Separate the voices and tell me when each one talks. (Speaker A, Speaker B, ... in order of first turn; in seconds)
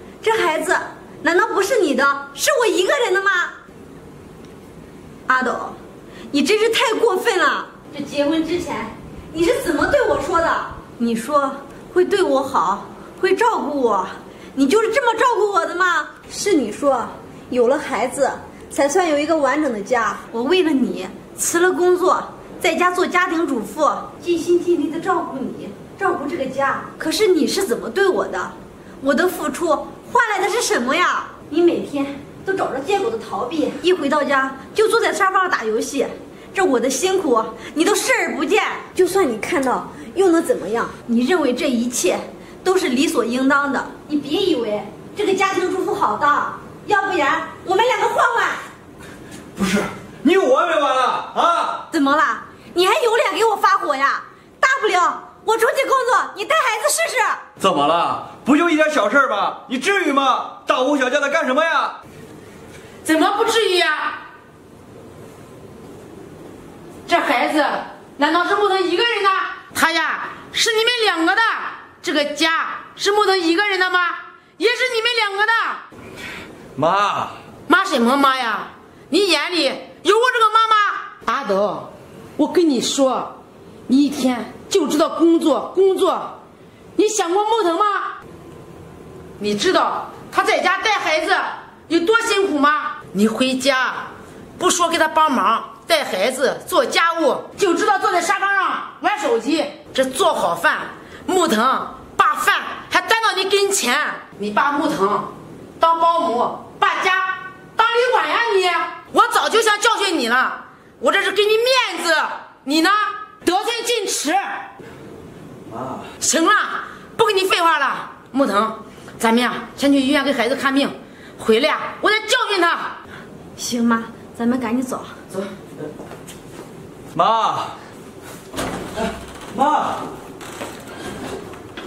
Speaker A: 0.2-3.5, 5.3-5.8, 6.3-48.7, 51.9-57.4, 123.5-125.1
Speaker B: 49.5-51.8, 57.6-61.9, 76.8-77.4, 115.7-116.1, 127.1-127.8, 129.5-130.0
Speaker C: 63.0-64.2, 67.1-75.8, 77.7-83.3, 83.9-86.3, 87.0-88.1, 89.4-114.6, 116.2-122.9